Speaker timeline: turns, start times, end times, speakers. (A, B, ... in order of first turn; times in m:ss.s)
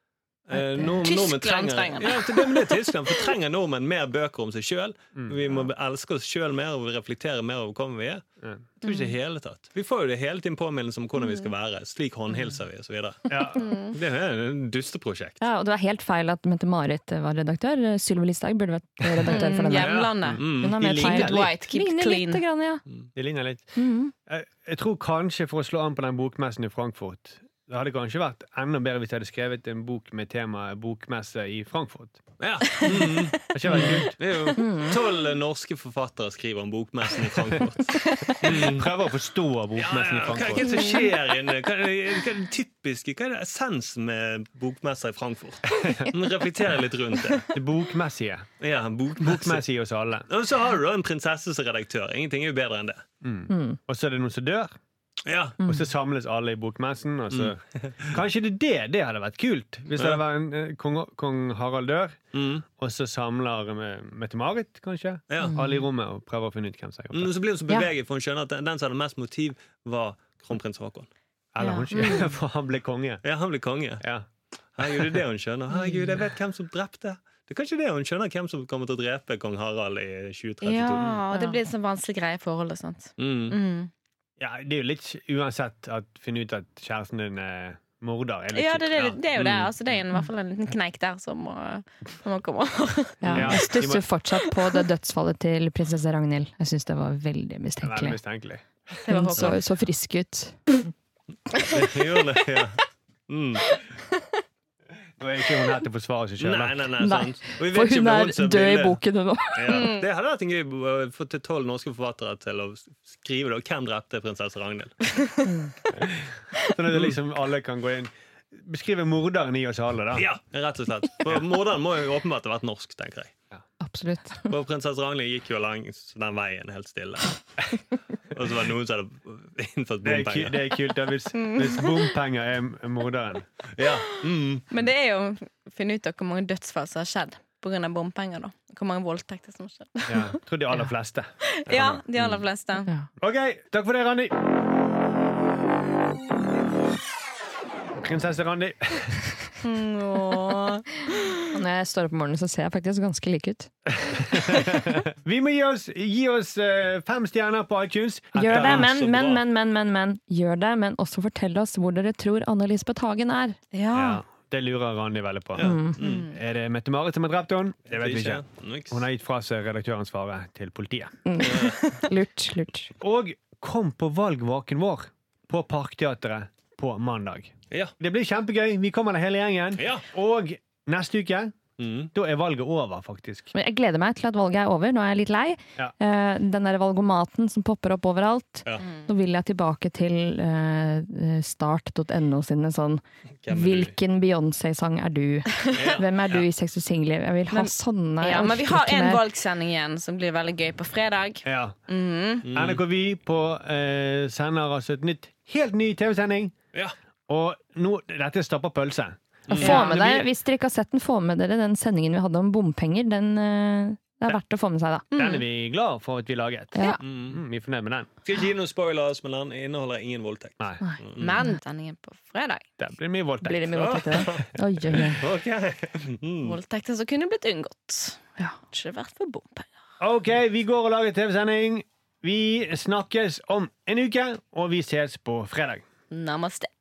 0:00.5-0:08.2 A
0:00.5-0:00.9 B
0:00.9-0:03.3 C
0:05.2-0:05.7 D
0:08.8-0:15.4 A
0:13.3-0:13.6 D
0:13.6-0:13.9 C
0:15.4-0:22.8 B
0:19.2-0:22.4 C
0:19.7-0:20.8 A
0:20.3-0:21.5 D
0:23.1-0:32.2 D
0:23.8-0:24.1 B
0:32.4-0:38.9 A
0:33.0-0:33.3 C
0:33.4-0:34.2 D
0:33.7-0:34.0 B
0:34.6-0:35.0 B
0:38.4-0:40.8 D
0:39.8-0:47.6 A
0:45.7-0:46.1 D
0:47.5-0:48.5 D
0:48.6-0:49.6 A
0:49.2-0:50.3 D
0:50.3-0:53.0 A
0:53.2-0:54.7 D
0:53.5-0:53.8 B
0:55.3-0:55.6 A
0:55.6-1:02.2 D
0:57.3-0:58.2 A
1:02.3-1:02.6 A
1:02.7-1:07.3 D
1:05.3-1:05.6 A
1:05.4-1:05.8 B
1:07.1-1:11.1 A
1:11.5-1:13.2 D
1:11.6-1:12.3 B
1:13.2-1:14.0 A
1:14.0-1:14.3 D
1:14.8-1:21.2 A
1:14.8-1:15.2 D
1:20.6-1:23.9 C
1:21.3-1:21.6 B
1:23.2-1:23.6 A
1:24.4-1:29.2 D
1:28.5-1:33.2 C
1:29.4-1:29.7 A
1:33.2-1:38.2 B
1:33.2-1:33.6 A
1:33.3-1:34.1 D
1:37.8-1:39.0 D
1:39.0-1:39.6 C
1:39.1-1:40.6 B
1:41.7-1:43.8 A
1:45.2-1:46.9 D
1:46.4-1:49.0 A
1:47.0-1:49.9 B
1:49.5-1:55.1 A
1:49.7-1:50.0 C
1:55.4-1:55.7 B
1:55.9-2:00.3 D
2:00.1-2:03.3 A
2:03.8-2:04.5 B
2:04.5-2:07.8 A
2:08.3-2:10.7 A
2:10.0-2:13.5 D
2:11.3-2:12.1 C
2:13.8-2:14.7 A
2:14.7-2:20.4 C
2:20.1-2:22.0 D
2:21.5-2:22.9 C
2:21.7-2:22.3 A
2:23.2-2:24.4 D
2:28.0-2:29.2 D
2:29.6-2:31.5 C
2:31.5-2:35.0 B
2:34.0-2:38.9 D
2:38.4-2:43.6 B
2:38.4-2:39.4 A
2:43.7-2:44.2 C
2:43.9-2:51.2 D
2:45.6-2:46.3 A
2:45.6-2:46.0 B
2:46.0-2:46.4 C
2:47.9-2:49.0 A
2:51.3-2:52.9 B
2:51.4-2:52.0 A
2:53.0-3:01.6 D
2:59.8-3:00.1 A
3:01.8-3:02.1 A
3:02.1-3:03.5 D
3:03.5-3:19.2 B
3:13.4-3:13.9 A
3:15.7-3:16.5 A
3:17.5-3:22.5 C
3:21.4-3:21.8 D
3:22.4-3:22.8 A
3:22.4-3:26.6 D
3:27.3-3:30.3 D
3:29.5-3:30.1 A
3:29.5-3:29.9 C
3:29.6-3:35.1 B
3:35.1-3:35.4 C
3:35.1-3:38.1 D
3:37.0-3:37.4 A
3:38.2-3:41.3 A
3:40.6-3:40.8 D
3:40.8-3:41.6 B
3:41.2-3:42.6 C
3:42.8-3:43.7 D
3:43.4-3:45.2 B
3:43.7-3:46.6 A
3:46.4-3:49.7 C
3:50.0-3:55.8 D
3:56.1-3:56.7 C